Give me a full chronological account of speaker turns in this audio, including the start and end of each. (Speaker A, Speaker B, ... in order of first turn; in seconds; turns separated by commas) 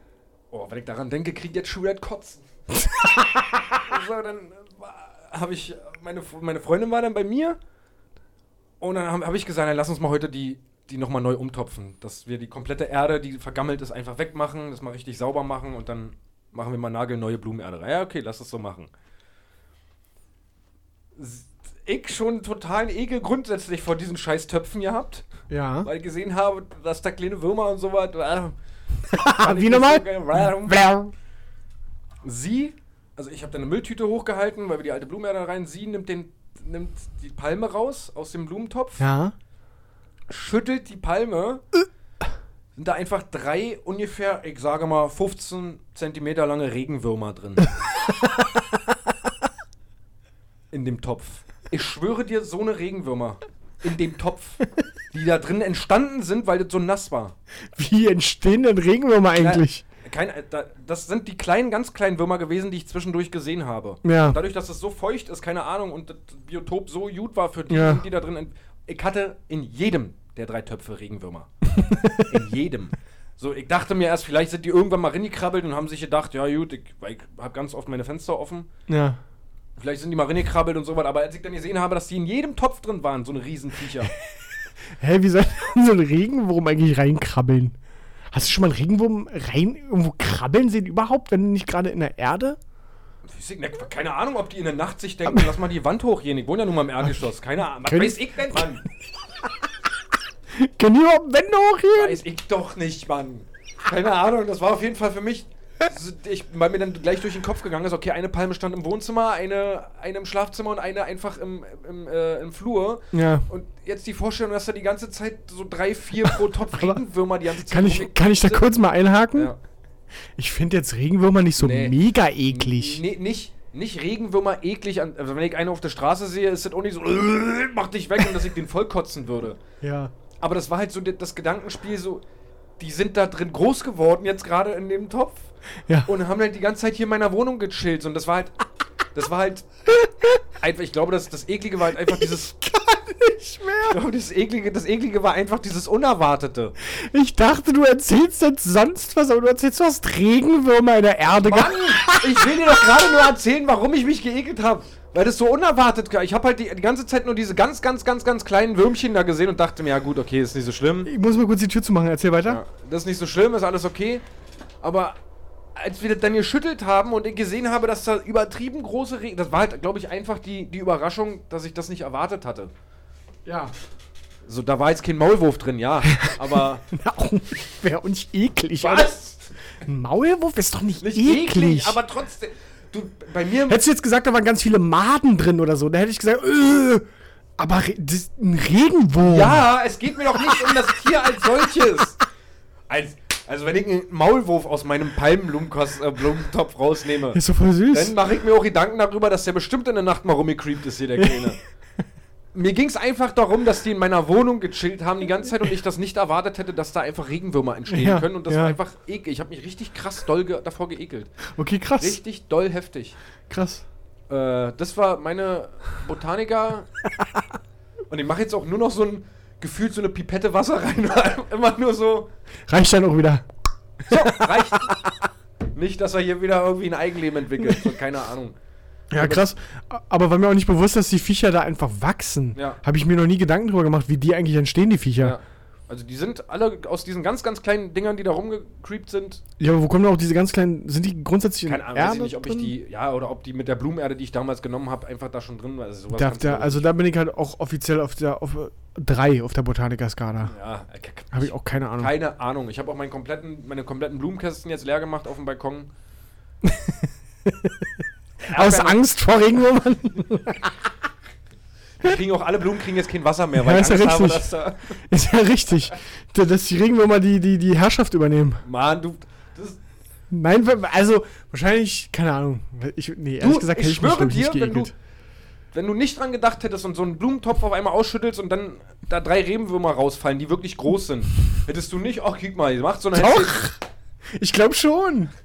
Speaker A: 0.5-2.4, Speaker A: 3.7-7.6, Speaker A: 8.8-18.9, Speaker A: 21.1-25.3, Speaker B: 25.5-25.9, Speaker A: 25.8-28.6, Speaker B: 29.1-31.1, Speaker A: 29.2-30.8, Speaker A: 32.2-39.0, Speaker B: 39.0-39.3, Speaker A: 40.3-41.6, Speaker A: 42.8-47.7, Speaker B: 48.0-48.8, Speaker A: 50.7-57.3, Speaker B: 57.7-59.8, Speaker A: 59.4-71.5, Speaker B: 64.0-64.4, Speaker B: 67.7-68.0, Speaker B: 71.7-72.4, Speaker A: 72.3-78.7, Speaker B: 78.9-79.2, Speaker A: 79.8-84.1, Speaker B: 85.0-87.8, Speaker B: 88.3-92.6, Speaker A: 93.2-98.8, Speaker B: 95.2-95.5, Speaker B: 97.8-98.7, Speaker B: 100.5-102.2, Speaker A: 101.9-118.7, Speaker B: 113.1-113.5, Speaker B: 116.2-117.0, Speaker B: 117.6-119.5, Speaker A: 119.3-119.6, Speaker B: 120.4-123.0, Speaker A: 121.6-129.6, Speaker B: 129.8-130.1, Speaker A: 130.4-132.2, Speaker A: 132.8-135.5, Speaker A: 136.0-138.5, Speaker A: 139.1-139.7, Speaker A: 140.6-142.5, Speaker B: 142.1-144.0, Speaker A: 143.9-146.8, Speaker B: 146.8-153.0, Speaker A: 151.4-161.1, Speaker B: 161.1-162.6, Speaker A: 162.4-164.2, Speaker A: 164.8-165.2, Speaker A: 165.8-172.7, Speaker B: 173.4-173.7, Speaker A: 174.5-176.8, Speaker B: 176.0-179.1, Speaker A: 178.8-179.5, Speaker B: 179.8-182.0, Speaker A: 181.0-183.8, Speaker B: 183.7-187.1, Speaker B: 187.6-189.7, Speaker A: 189.2-192.2, Speaker B: 190.3-190.9, Speaker A: 192.9-201.6, Speaker B: 197.3-198.1, Speaker A: 202.5-211.3, Speaker B: 207.9-208.8, Speaker B: 211.6-212.2, Speaker A: 212.0-213.2, Speaker B: 213.5-213.8, Speaker A: 214.3-216.9, Speaker A: 218.1-222.3, Speaker B: 222.7-223.4, Speaker A: 224.1-225.0, Speaker B: 224.1-225.1, Speaker A: 225.7-228.6, Speaker B: 229.1-235.4, Speaker A: 229.2-229.4, Speaker A: 232.5-232.8, Speaker A: 235.2-239.4, Speaker B: 239.6-242.7, Speaker A: 241.7-246.8, Speaker B: 246.1-250.5, Speaker A: 250.4-255.9, Speaker B: 251.3-252.1, Speaker B: 256.6-260.9, Speaker A: 258.4-259.0, Speaker A: 262.0-264.9, Speaker B: 263.5-264.5, Speaker B: 265.1-268.6, Speaker A: 268.6-269.8, Speaker B: 270.3-274.9, Speaker A: 273.4-274.9, Speaker A: 275.7-283.7, Speaker B: 283.1-283.8, Speaker B: 284.3-285.3